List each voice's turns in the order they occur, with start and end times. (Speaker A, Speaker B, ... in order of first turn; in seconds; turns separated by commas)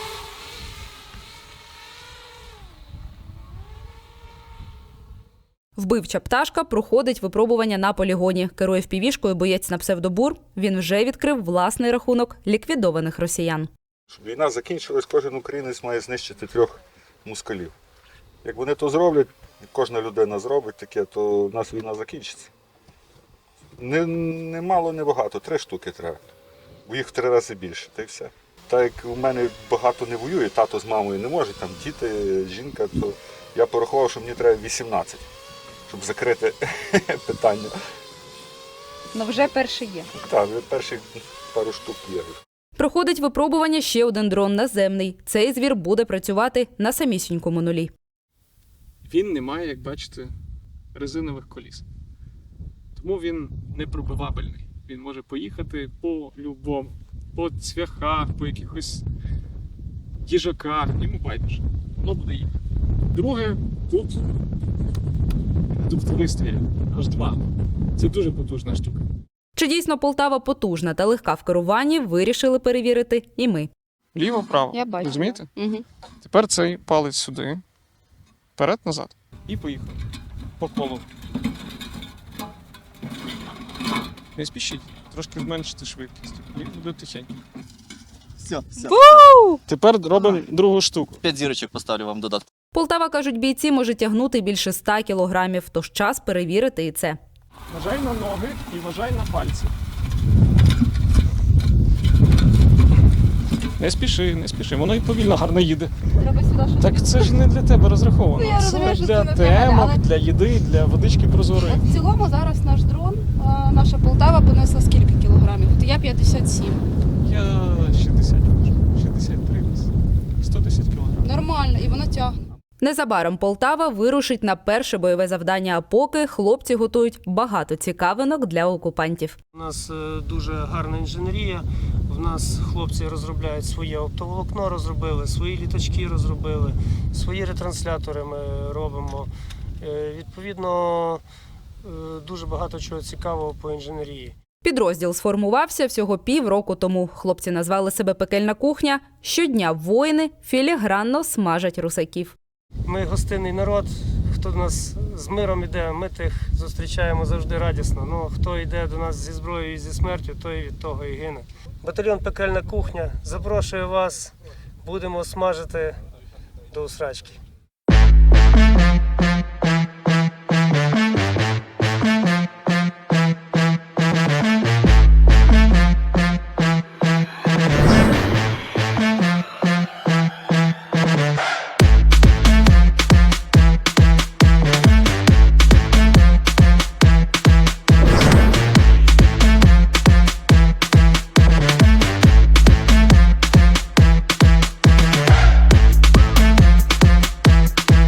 Speaker A: 5.8-13.7, Speaker B: 14.1-17.7, Speaker B: 18.4-22.5, Speaker B: 23.8-26.3, Speaker B: 26.9-35.2, Speaker B: 35.9-37.7, Speaker A: 39.1-40.1, Speaker B: 40.2-42.4, Speaker A: 42.8-47.9, Speaker C: 49.0-50.3, Speaker C: 50.9-51.8, Speaker C: 53.0-59.0, Speaker C: 60.2-62.5, Speaker C: 63.1-64.2, Speaker C: 65.8-67.4, Speaker C: 68.0-69.0, Speaker A: 69.6-73.7, Speaker C: 74.2-75.5, Speaker D: 74.7-75.8, Speaker C: 76.2-77.6, Speaker C: 78.6-80.0, Speaker C: 80.6-81.0, Speaker C: 84.4-87.3, Speaker E: 88.4-89.3, Speaker A: 88.9-89.6, Speaker C: 89.7-91.2, Speaker E: 91.2-92.5, Speaker A: 92.7-97.2, Speaker C: 97.7-99.7, Speaker C: 103.8-106.1, Speaker D: 106.2-107.3, Speaker C: 106.8-111.9, Speaker D: 108.3-110.0, Speaker D: 111.7-116.8, Speaker C: 117.2-119.9, Speaker C: 120.4-121.3, Speaker D: 121.2-122.4, Speaker A: 122.8-129.4, Speaker F: 129.6-139.3, Speaker F: 139.8-141.2, Speaker F: 141.8-144.3, Speaker A: 144.6-152.4, Speaker F: 152.9-166.0, Speaker F: 166.7-167.4